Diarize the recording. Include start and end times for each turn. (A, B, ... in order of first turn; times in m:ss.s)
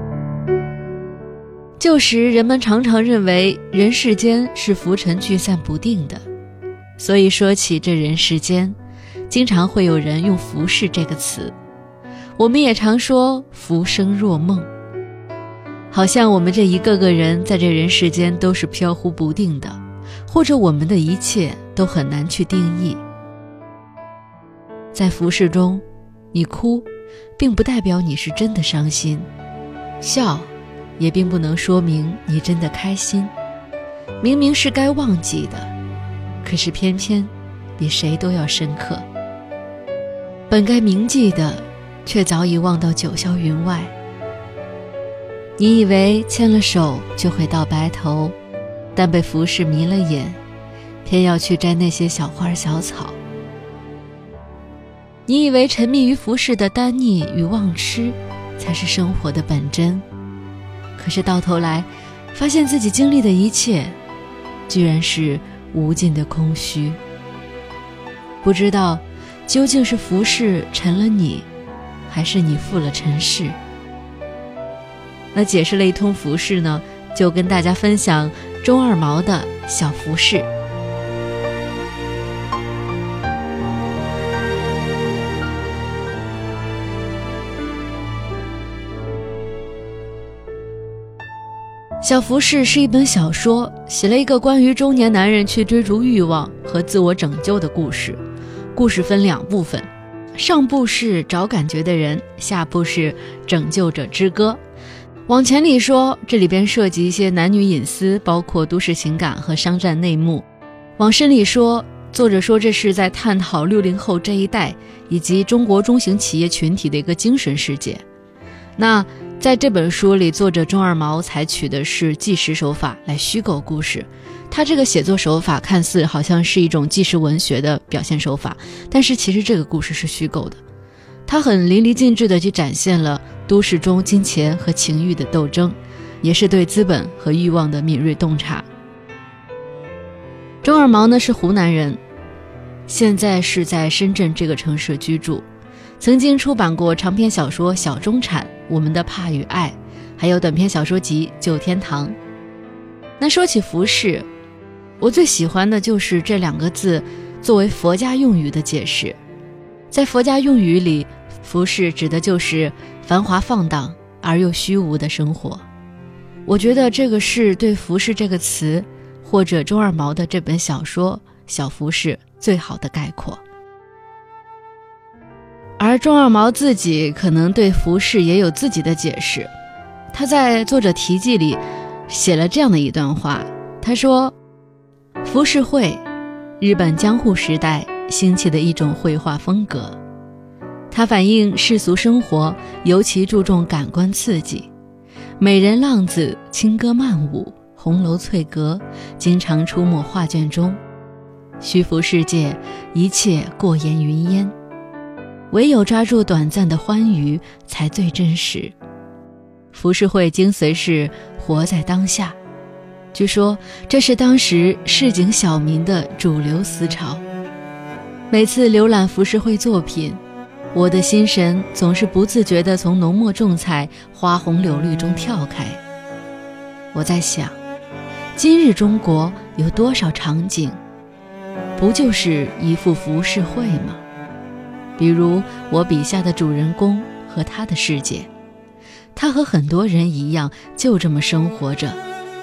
0:01.8-0:06.2 A
0:07.0-0:08.8 A
0:09.3-0:11.6 A
0:12.4-0:14.7 A
0:15.9-0:23.0 A
0:24.9-0:29.3 A
0:30.0-0:33.3 A
0:34.2-0:35.7 A
0:36.4-0:39.1 A
0:40.5-0:44.0 A
0:45.6-0:48.4 A
0:49.0-0:50.4 A
0:51.0-0:53.2 A
0:55.3-1:00.0 A
1:01.0-1:04.0 A
1:04.7-1:07.0 A
1:08.4-1:11.5 A
1:12.1-1:13.6 A
1:15.3-1:20.5 A
1:32.0-1:38.2 A
1:38.8-1:44.6 A
1:45.3-1:50.5 A
1:51.0-1:58.0 A
1:58.8-2:10.6 A
2:11.3-2:18.7 A
2:20.6-2:22.0 A
2:22.9-2:25.5 A
2:26.0-2:32.2 A
2:33.2-2:34.3 A
2:35.0-2:39.2 A
2:39.9-2:45.6 A
2:46.5-2:53.4 A
2:55.8-2:59.5 A
3:00.1-3:04.4 A
3:05.2-3:06.0 A
3:06.6-3:10.0 A
3:10.9-3:14.7 A
3:15.4-3:20.8 A
3:21.6-3:24.5 A
3:25.5-3:28.7 A
3:29.7-3:32.4 A
3:33.1-3:37.2 A
3:38.3-3:40.2 A
3:40.7-3:45.8 A
3:46.9-3:47.6 A
3:48.4-3:50.8 A
3:51.8-3:54.0 A
3:55.0-3:58.3 A
3:59.2-4:02.0 A